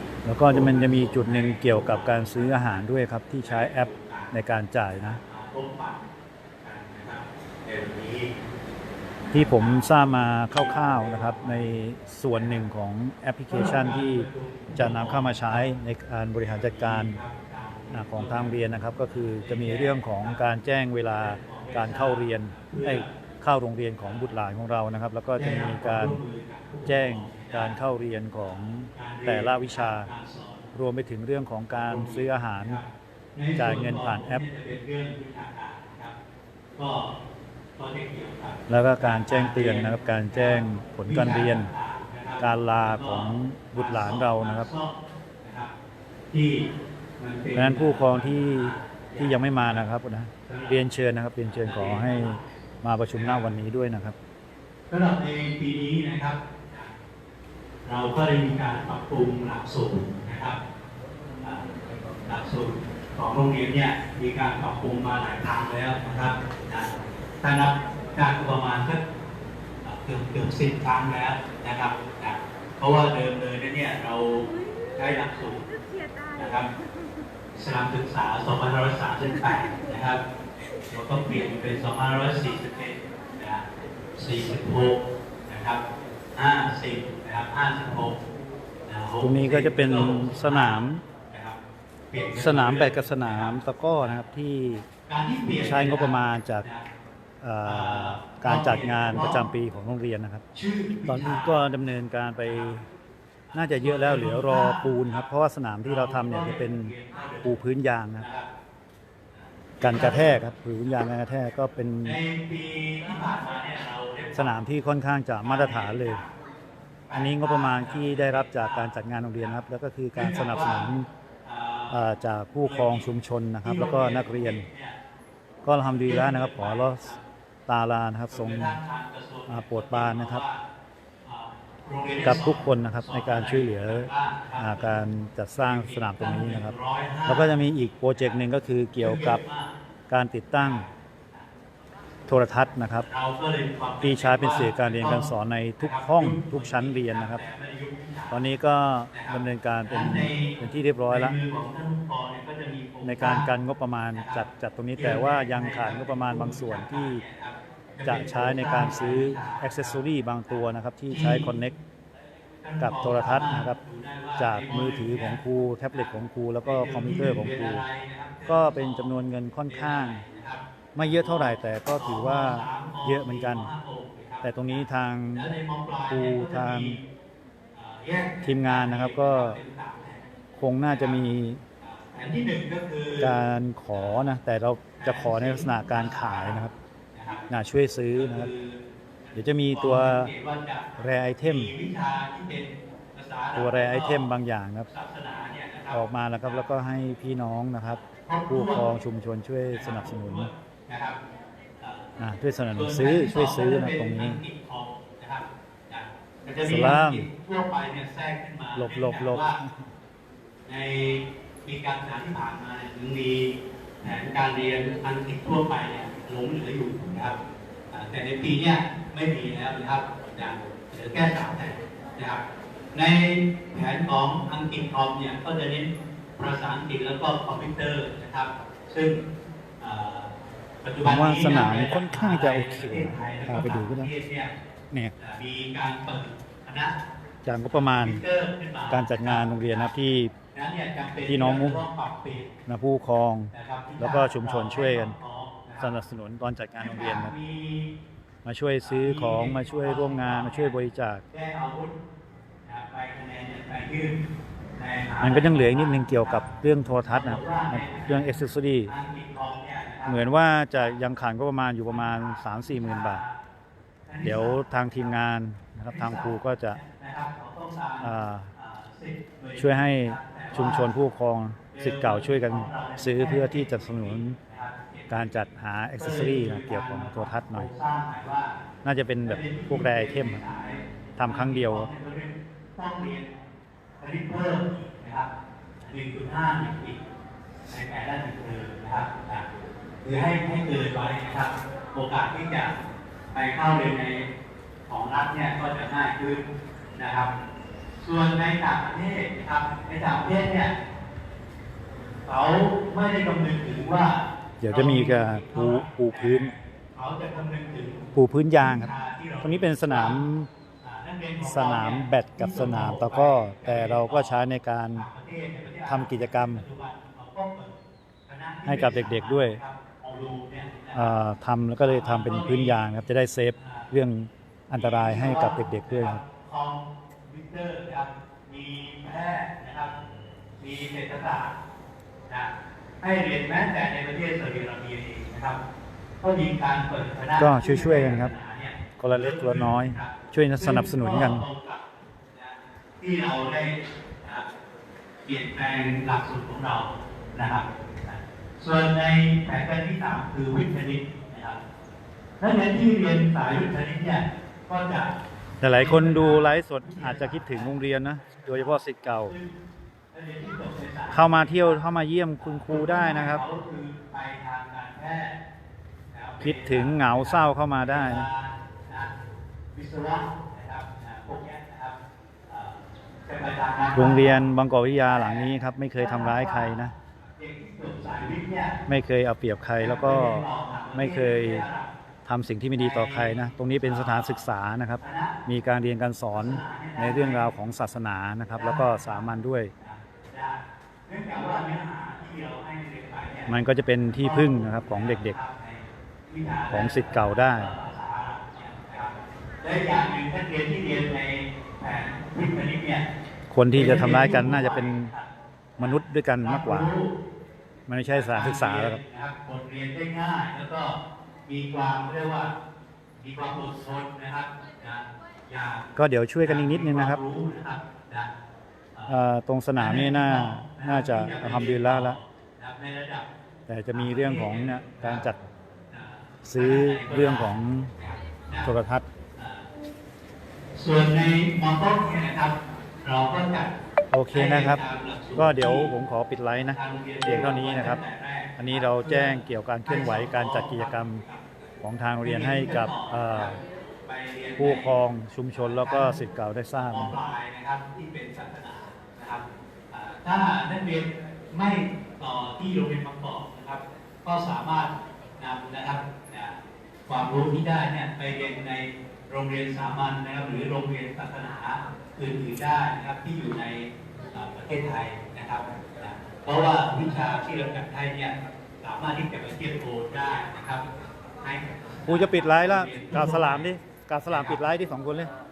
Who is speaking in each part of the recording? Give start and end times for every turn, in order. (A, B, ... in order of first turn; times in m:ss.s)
0:00.2-0:05.2 A
0:00.5-0:02.8 B
0:03.4-0:04.3 B
0:04.9-0:06.0 B
0:06.6-0:08.3 B
0:09.3-0:11.8 B
0:09.3-0:17.2 A
0:12.3-0:12.6 B
0:13.5-0:15.7 B
0:16.4-0:18.6 B
0:17.9-0:26.2 A
0:19.2-0:20.5 B
0:21.0-0:23.1 B
0:24.0-0:24.3 B
0:25.3-0:27.8 B
0:26.8-0:30.1 A
0:28.4-0:30.7 B
0:30.7-0:32.8 A
0:31.7-0:36.1 B
0:33.6-0:34.4 A
0:36.8-0:37.1 B
0:37.8-0:45.7 B
0:38.7-0:41.7 A
0:42.4-0:44.7 A
0:46.3-0:46.7 B
0:47.2-0:49.9 B
0:47.5-0:54.1 A
0:50.4-0:50.9 B
0:51.4-0:52.5 B
0:53.1-0:53.5 B
0:54.9-0:57.0 B
0:57.8-1:00.6 B
1:01.4-1:01.7 B
1:02.2-1:09.0 B
1:09.8-1:15.7 B
1:16.3-1:16.7 B
1:17.5-1:20.2 B
1:20.9-1:25.8 B
1:26.3-1:28.2 B
1:28.8-1:31.6 B
1:29.2-1:31.0 A
1:32.1-1:34.2 B
1:32.4-1:34.8 A
1:35.1-1:36.8 B
1:35.6-1:36.7 A
1:37.4-1:40.4 A
1:37.6-1:39.4 B
1:40.5-1:41.6 B
1:41.1-1:42.8 A
1:42.4-1:42.8 B
1:43.5-1:45.3 B
1:43.5-1:48.2 A
1:45.8-1:47.6 B
1:48.2-1:48.5 B
1:49.8-1:50.4 B
1:49.8-1:52.2 A
1:52.0-1:54.6 B
1:54.3-1:56.2 A
1:55.4-1:56.3 B
1:57.1-1:59.6 B
1:57.1-2:01.1 A
2:00.1-2:00.9 B
2:01.4-2:02.0 B
2:01.9-2:04.7 A
2:02.6-2:03.1 B
2:03.6-2:05.0 B
2:05.6-2:07.1 A
2:05.9-2:07.2 B
2:07.7-2:08.8 A
2:08.3-2:10.6 B
2:09.5-2:10.4 A
2:11.2-2:17.6 B
2:12.2-2:16.7 A
2:17.2-2:19.4 A
2:18.2-2:19.7 B
2:20.1-2:20.8 A
2:20.6-2:21.5 B
2:22.3-2:23.1 A
2:23.0-2:28.4 B
2:24.0-2:27.4 A
2:28.3-2:31.4 A
2:29.1-2:33.5 B
2:33.0-2:37.2 A
2:34.1-2:40.0 B
2:38.0-2:41.7 A
2:41.1-2:41.5 B
2:42.6-2:57.0 B
2:42.8-2:43.8 A
2:44.4-2:47.8 A
2:48.5-2:50.2 A
2:51.0-2:53.7 A
2:54.4-2:55.5 A
2:56.1-2:57.0 A
2:57.7-3:00.2 B
2:58.4-2:59.6 A
3:00.6-3:01.6 A
3:00.9-3:01.2 B
3:01.8-3:03.4 B
3:03.2-3:06.7 A
3:03.9-3:04.3 B
3:05.0-3:07.5 B
3:07.5-3:08.5 A
3:08.1-3:14.3 B
3:09.3-3:10.3 A
3:11.0-3:11.7 A
3:13.5-3:14.9 A
3:14.9-3:16.8 B
3:15.9-3:20.5 A
3:17.8-3:19.0 B
3:19.7-3:21.2 B
3:21.8-3:22.1 B
3:22.2-3:24.4 A
3:22.7-3:29.6 B
3:26.6-3:27.2 A
3:28.7-3:29.9 A
3:30.6-3:37.4 B
3:37.9-3:42.4 B
3:42.9-3:49.2 B
3:49.8-3:50.3 B
3:50.8-3:54.5 B
3:51.0-3:54.1 A
3:55.2-3:57.0 B
3:57.4-3:58.2 A
3:57.9-3:59.9 B
3:58.9-4:00.3 A
4:00.5-4:02.5 B
4:01.2-4:01.8 A
4:02.6-4:05.2 A
4:03.5-4:06.0 B
4:05.8-4:07.3 A
4:06.8-4:07.9 B
4:08.4-4:11.2 A
4:08.8-4:10.7 B
4:11.3-4:11.9 B
4:12.6-4:14.2 B
4:14.8-4:16.5 B
4:15.2-4:18.9 A
4:17.1-4:20.9 B
4:20.0-4:23.2 A
4:21.8-4:23.4 B
4:24.1-4:25.2 B
4:24.2-4:26.8 A
4:25.9-4:30.9 B
4:28.0-4:28.5 A
4:29.6-4:34.4 A
4:31.7-4:35.4 B
4:35.1-4:37.7 A
4:36.0-4:38.6 B
4:38.8-4:40.4 A
4:39.2-4:43.3 B
4:41.2-4:41.9 A
4:44.0-4:45.3 B
4:45.8-4:47.0 B
4:47.7-4:49.5 B
4:50.0-4:52.8 B
4:53.3-4:54.3 B
4:54.9-4:57.3 B
4:58.0-5:00.7 B
5:02.2-5:10.2 B
5:04.6-5:06.5 A
5:08.1-5:08.9 A
5:09.4-5:10.5 A
5:10.8-5:14.4 B
5:11.4-5:15.0 A
5:14.9-5:17.7 B
5:15.9-5:16.6 A
5:18.3-5:21.1 B
5:18.6-5:19.6 A
5:20.9-5:26.2 A
5:21.8-5:22.9 B
5:23.6-5:23.9 B
5:24.8-5:29.9 B
5:30.6-5:31.5 B
5:32.3-5:35.6 B
5:36.2-5:44.5 B
5:37.4-5:38.3 A
5:39.0-5:41.4 A
5:45.2-5:51.6 B
5:52.4-5:55.1 B
5:55.6-5:59.4 A
5:55.8-5:59.5 B
6:00.1-6:01.8 B
6:01.1-6:03.4 A
6:02.4-6:05.4 B
6:06.1-6:09.1 B
6:06.4-6:08.3 A
6:09.7-6:14.4 B
6:13.9-6:16.9 A
6:15.0-6:16.8 B
6:17.4-6:18.8 B
6:18.9-6:21.6 A
6:19.8-6:21.9 B
6:22.2-6:29.7 A
6:22.7-6:24.4 B
6:25.0-6:25.4 B
6:26.3-6:27.5 B
6:28.5-6:29.3 B
6:29.8-6:33.6 B
6:33.5-6:35.4 A
6:34.2-6:43.0 B
6:36.7-6:37.7 A
6:43.5-6:45.1 A
6:43.7-6:47.1 B
6:45.8-6:46.9 A
6:47.9-6:49.0 A
6:48.1-6:52.5 B
6:53.2-6:58.3 B
6:56.0-6:57.2 A
6:59.1-7:02.2 A
6:59.8-7:03.3 B
7:03.7-7:05.4 A
7:03.9-7:05.3 B
7:05.9-7:08.8 B
7:06.4-7:07.9 A
7:08.6-7:09.1 A
7:09.4-7:09.7 B
7:10.7-7:13.7 B
7:14.1-7:14.8 A
7:14.3-7:15.9 B
7:15.4-7:18.0 A
7:16.7-7:21.5 B
7:18.6-7:21.2 A
7:21.8-7:23.6 A
7:22.2-7:24.9 B
7:24.6-7:27.1 A
7:25.6-7:26.2 B
7:26.8-7:50.8 B
7:51.4-7:53.7 B
7:52.0-7:55.3 A
7:54.3-7:54.6 B